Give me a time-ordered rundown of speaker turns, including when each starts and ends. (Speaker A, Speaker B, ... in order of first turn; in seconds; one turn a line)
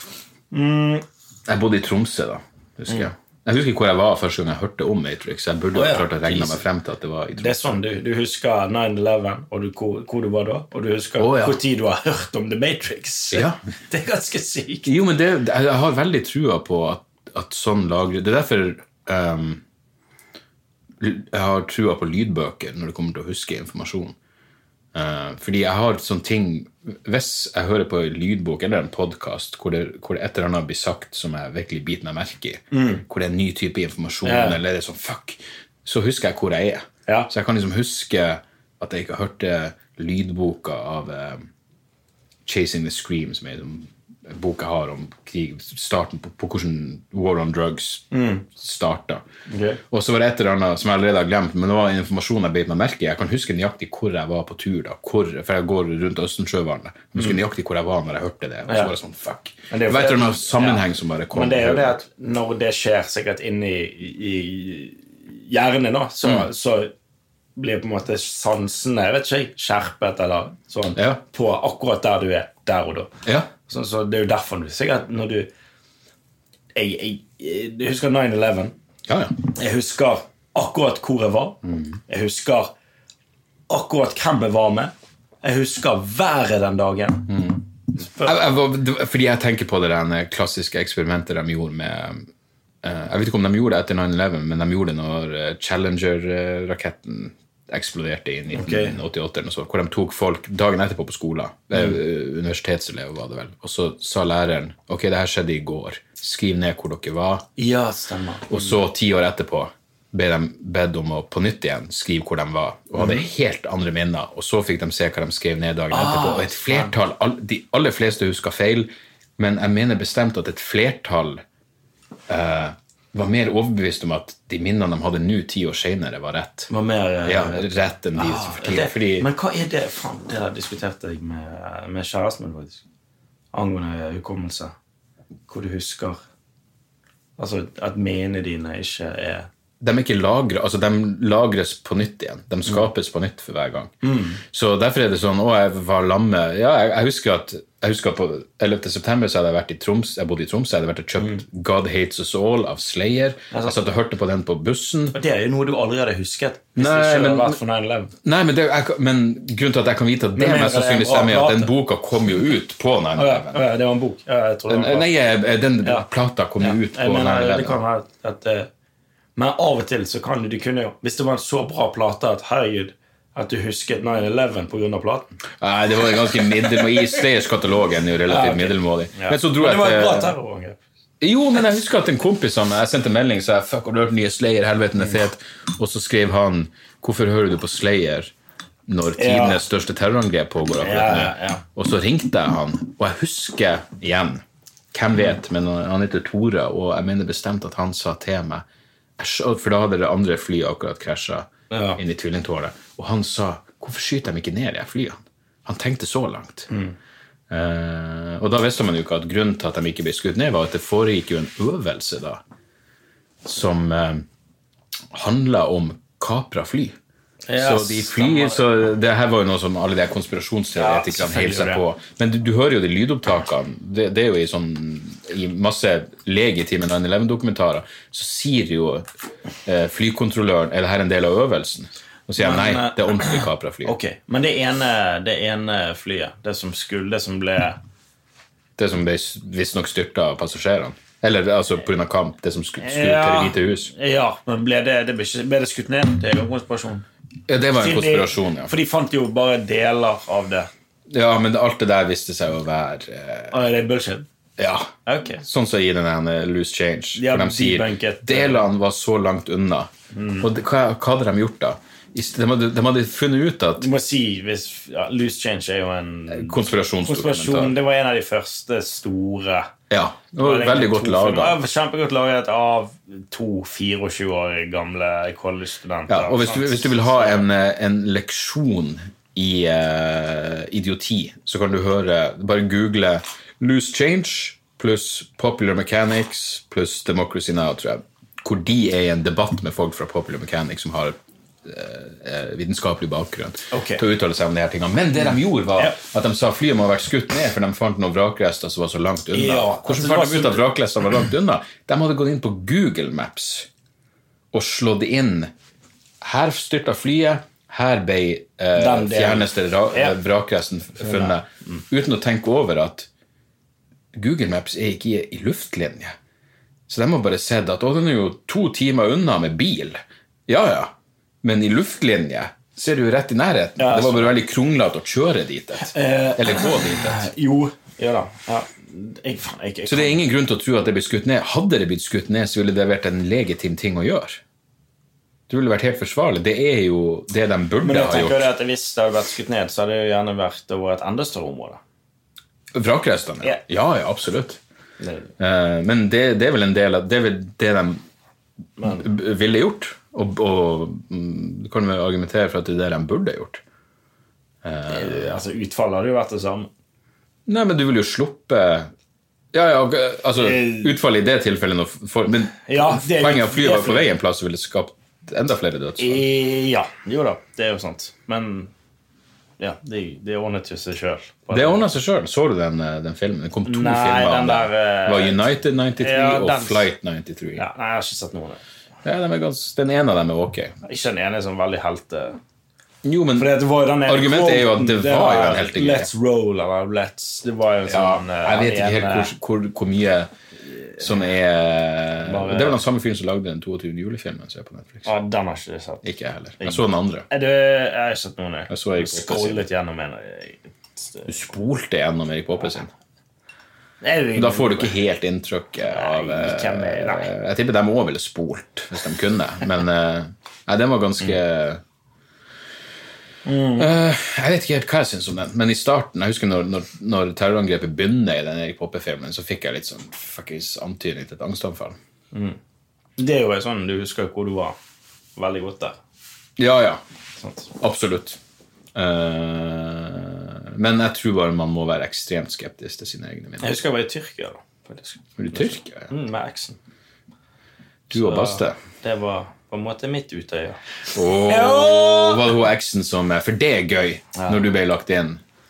Speaker A: 0.5-1.0
Speaker B: 1.5-7.8
Speaker A: 5.7-6.6
Speaker A: 7.4-14.9
Speaker B: 11.2-11.6
Speaker B: 13.3-13.6
Speaker B: 14.8-19.6
Speaker B: 21.0-24.1
Speaker B: 24.9-41.5
Speaker A: 32.7-33.0
Speaker A: 34.2-34.6
Speaker B: 42.5-49.2
Speaker A: 48.1-48.5
Speaker A: 49.5-49.8
Speaker B: 49.9-62.0
Speaker A: 58.7-58.9
Speaker A: 59.7-66.9
Speaker A: 67.5-75.5
Speaker A: 76.7-78.7
Speaker B: 79.1-79.3
Speaker A: 79.4-82.7
Speaker A: 83.7-87.4
Speaker B: 87.3-87.6
Speaker A: 87.9-88.5
Speaker B: 88.2-92.3
Speaker B: 92.8-107.5
Speaker A: 98.5-99.0
Speaker A: 107.6-108.8
Speaker B: 108.5-121.4
Speaker A: 113.0-113.3
Speaker A: 115.9-116.9
Speaker B: 122.3-126.7
Speaker A: 126.7-132.8
Speaker B: 127.2-129.3
Speaker A: 133.5-134.7
Speaker A: 135.5-136.2
Speaker A: 137.4-139.5
Speaker B: 139.8-155.2
Speaker A: 144.0-144.4
Speaker A: 153.5-153.9
Speaker A: 155.1-158.1
Speaker B: 156.8-157.6
Speaker B: 158.2-163.6
Speaker A: 160.3-161.7
Speaker A: 163.1-165.1
Speaker B: 164.7-167.8
Speaker A: 166.6-168.7
Speaker A: 169.3-175.3
Speaker B: 175.6-180.3
Speaker A: 176.4-177.1
Speaker A: 178.2-180.8
Speaker B: 181.2-188.3
Speaker B: 188.9-194.4
Speaker A: 189.2-189.6
Speaker A: 190.8-191.6
Speaker B: 194.9-198.6
Speaker B: 199.2-206.7
Speaker A: 201.7-202.0
Speaker A: 206.7-206.9
Speaker B: 207.5-212.4
Speaker B: 213.4-214.2
Speaker B: 215.1-217.0
Speaker A: 217.5-218.7
Speaker B: 217.5-229.1
Speaker A: 220.8-221.8
Speaker B: 229.7-233.9
Speaker A: 232.4-237.8
Speaker B: 238.8-243.9
Speaker A: 242.8-247.1
Speaker B: 247.5-248.7
Speaker A: 247.8-250.7
Speaker B: 251.1-253.6
Speaker A: 253.5-254.3
Speaker B: 254.6-254.9
Speaker A: 255.1-255.4
Speaker B: 255.4-259.9
Speaker A: 257.1-258.7
Speaker A: 260.1-260.5
Speaker B: 260.4-263.9
Speaker A: 263.8-269.7
Speaker B: 266.3-267.8
Speaker B: 269.9-271.6
Speaker A: 270.4-277.4
Speaker B: 276.1-303.7
Speaker A: 293.7-294.0
Speaker A: 295.1-296.0
Speaker A: 299.3-300.7
Speaker B: 304.5-305.5
Speaker B: 306.2-313.1
Speaker A: 308.7-310.2
Speaker A: 311.0-311.4
Speaker B: 314.1-316.1
Speaker B: 316.9-327.3
Speaker A: 323.8-324.4
Speaker A: 325.8-330.2
Speaker B: 329.9-334.4
Speaker B: 335.5-338.5
Speaker A: 337.8-341.8
Speaker B: 342.7-344.6
Speaker A: 345.0-345.3
Speaker B: 345.4-348.0
Speaker A: 348.8-349.1
Speaker B: 348.8-353.6
Speaker B: 354.6-355.4
Speaker A: 354.9-356.7
Speaker B: 357.4-358.9
Speaker B: 359.5-366.2
Speaker A: 360.4-360.9
Speaker A: 362.6-364.1
Speaker A: 366.0-368.7
Speaker A: 369.6-371.9
Speaker B: 371.5-377.6
Speaker A: 373.6-376.9
Speaker A: 377.6-378.6
Speaker B: 379.0-380.7
Speaker A: 380.8-382.4
Speaker B: 383.0-383.5
Speaker A: 383.4-389.3
Speaker B: 384.1-386.1
Speaker B: 387.9-390.3
Speaker B: 391.0-395.1
Speaker A: 392.2-392.8
Speaker A: 395.0-396.1
Speaker B: 396.0-397.2
Speaker A: 396.6-401.3
Speaker B: 398.7-399.6
Speaker B: 401.2-402.9
Speaker A: 404.0-405.0
Speaker B: 404.3-411.8
Speaker A: 405.9-407.3
Speaker A: 413.4-413.9
Speaker B: 413.8-422.0
Speaker A: 422.3-422.6
Speaker A: 423.2-424.8
Speaker A: 425.4-426.0
Speaker B: 426.6-427.0
Speaker A: 427.4-427.7
Speaker B: 427.8-428.4
Speaker B: 428.9-433.8
Speaker A: 433.6-436.8
Speaker B: 435.4-436.1
Speaker B: 438.1-438.8
Speaker A: 438.1-442.5
Speaker B: 441.1-445.4
Speaker A: 444.3-444.6